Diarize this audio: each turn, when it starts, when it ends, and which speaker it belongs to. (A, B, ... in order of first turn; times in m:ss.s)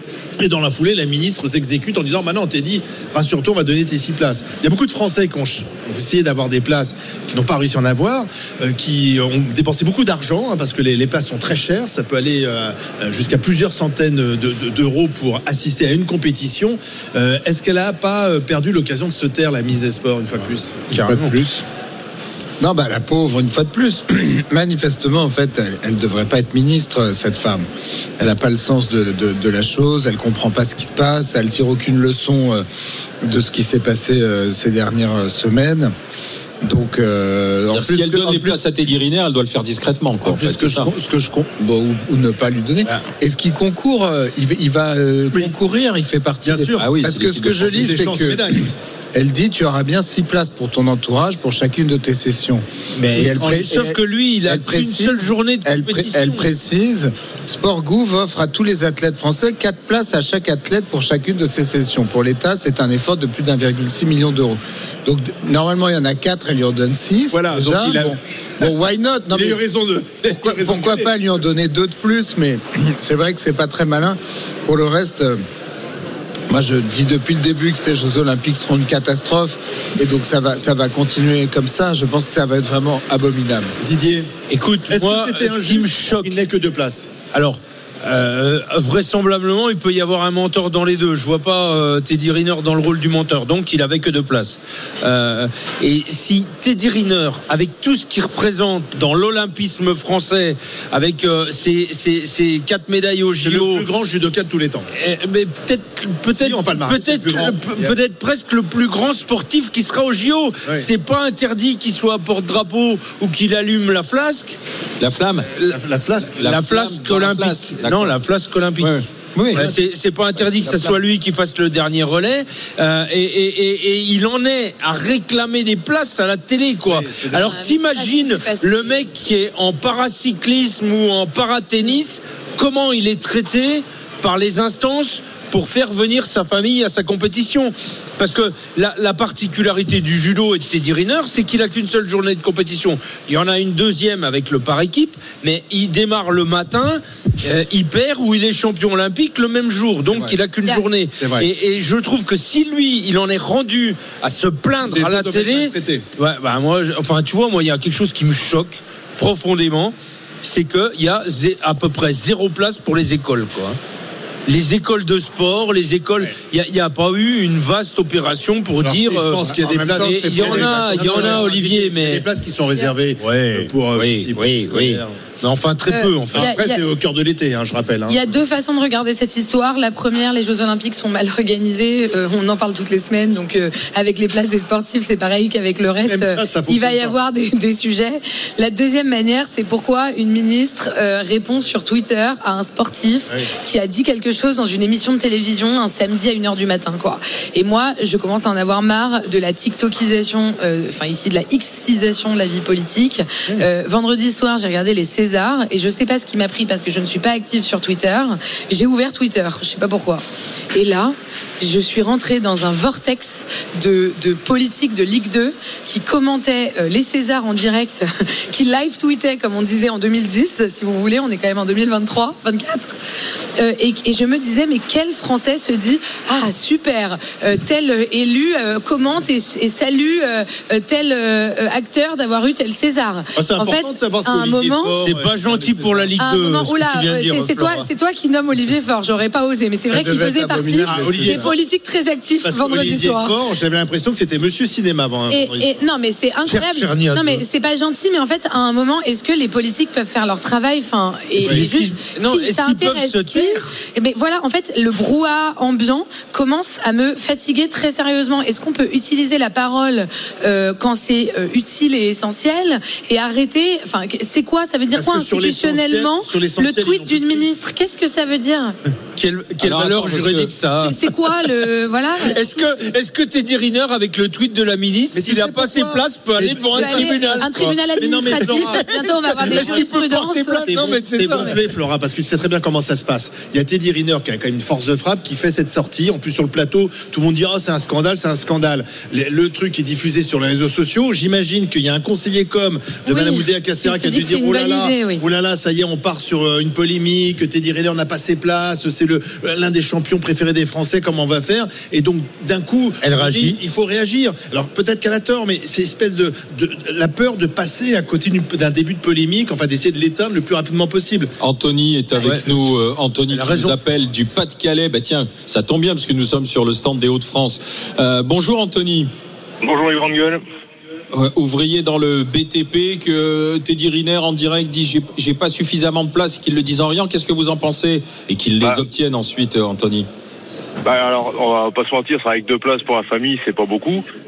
0:00.4-0:20.9 A
0:20.9-0:21.3 B
0:20.9-0:21.6 C
0:22.6-0:27.7 C
0:28.2-0:32.6 C
0:33.2-0:35.9 C
0:36.6-0:38.6 C
0:37.7-0:40.9 D
0:40.2-0:48.6 C
0:46.4-0:46.9 A
0:46.8-0:48.1 D
0:47.6-0:48.6 A
0:49.1-1:09.6 C
0:53.0-0:56.5 B
0:53.2-0:53.6 A
1:07.3-1:08.7 A
1:09.3-1:11.1 A
1:10.3-1:15.4 C
1:16.5-1:23.8 C
1:23.8-1:24.3 A
1:24.5-1:26.4 B
1:24.9-1:27.1 A
1:27.3-1:43.9 B
1:43.4-1:44.9 A
1:44.9-1:54.6 B
1:46.3-1:48.0 A
1:55.0-1:55.5 D
1:55.7-1:56.4 A
1:56.4-1:58.2 D
1:56.4-1:59.0 B
1:58.8-1:59.7 D
1:59.4-1:59.7 C
1:59.5-2:43.8 B
2:06.9-2:07.6 A
2:07.5-2:09.0 E
2:30.0-2:30.4 A
2:31.2-2:31.5 A
2:34.9-2:36.0 A
2:44.5-2:52.2 B
2:48.8-2:55.1 A
2:49.5-2:51.5 C
2:53.2-2:56.5 B
2:55.9-2:56.8 E
2:56.3-2:58.2 A
2:58.1-3:42.9 E
3:06.1-3:07.1 A
3:43.6-3:55.0 E
3:53.4-3:56.1 A
3:55.0-3:57.9 B
3:56.2-4:03.3 E
3:59.8-4:01.5 C
4:00.9-4:01.6 A
4:02.4-4:05.7 A
4:05.3-4:28.8 E
4:06.5-4:07.4 B
4:11.4-4:13.8 B
4:24.9-4:27.5 A
4:29.2-4:31.0 B
4:29.6-4:30.5 D
4:30.8-4:32.4 E
4:32.2-4:41.6 B
4:35.1-5:11.3 A
4:36.7-4:40.6 E
4:53.1-4:55.2 E
5:03.0-5:03.6 B
5:11.4-5:19.1 D
5:12.2-5:12.7 B
5:13.3-5:13.8 B
5:19.6-5:20.4 F
5:21.1-5:30.1 D
5:30.8-5:34.0 F